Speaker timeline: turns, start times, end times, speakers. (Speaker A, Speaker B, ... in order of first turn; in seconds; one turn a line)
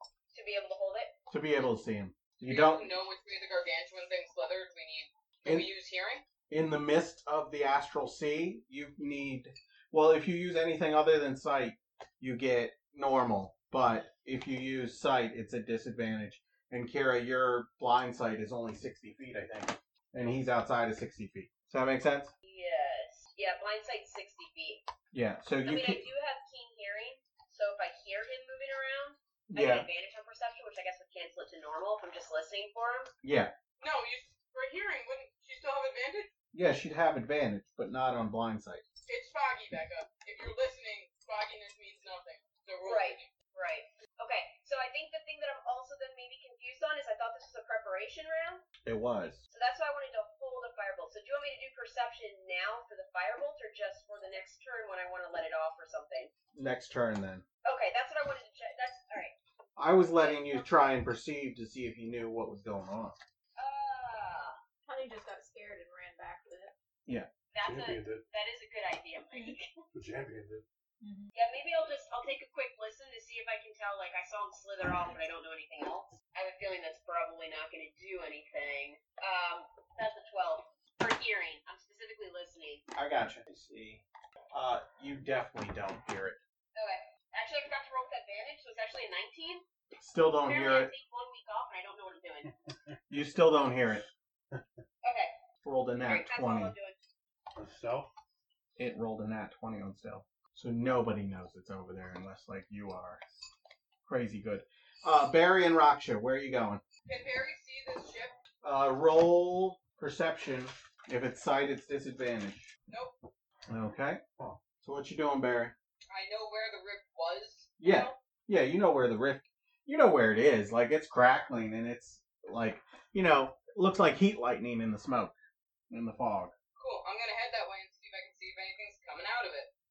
Speaker A: 0.3-1.1
Speaker B: 1.3-2.9
Speaker C: 2.4-6.2
Speaker B: 6.5-22.3
Speaker A: 22.4-24.8
Speaker B: 25.1-26.1
Speaker A: 25.6-33.1
Speaker B: 29.5-29.9
Speaker B: 33.2-33.5
Speaker C: 33.8-36.3
Speaker B: 36.5-38.8
Speaker C: 39.1-43.3
Speaker A: 42.8-48.6
Speaker B: 48.8-49.4
Speaker A: 49.5-56.3
Speaker B: 56.5-57.4
Speaker A: 57.6-59.3
Speaker B: 59.8-63.1
Speaker A: 60.1-60.8
Speaker A: 63.6-64.5
Speaker D: 64.9-66.7
Speaker A: 67.5-69.8
Speaker E: 67.6-68.2
Speaker E: 69.9-70.6
Speaker D: 71.0-71.3
Speaker A: 71.3-82.8
Speaker B: 82.9-86.4
Speaker A: 86.8-89.6
Speaker B: 90.0-90.9
Speaker A: 90.4-92.5
Speaker B: 93.1-94.0
Speaker E: 93.8-94.6
Speaker A: 95.0-95.3
Speaker B: 95.6-96.7
Speaker A: 96.0-97.0
Speaker E: 97.5-98.1
Speaker B: 98.8-103.2
Speaker B: 104.0-106.8
Speaker C: 107.0-108.3
Speaker B: 108.6-112.7
Speaker B: 113.7-114.2
Speaker B: 114.8-115.7
Speaker C: 116.1-118.1
Speaker B: 117.8-125.3
Speaker B: 125.9-126.5
Speaker C: 126.8-129.7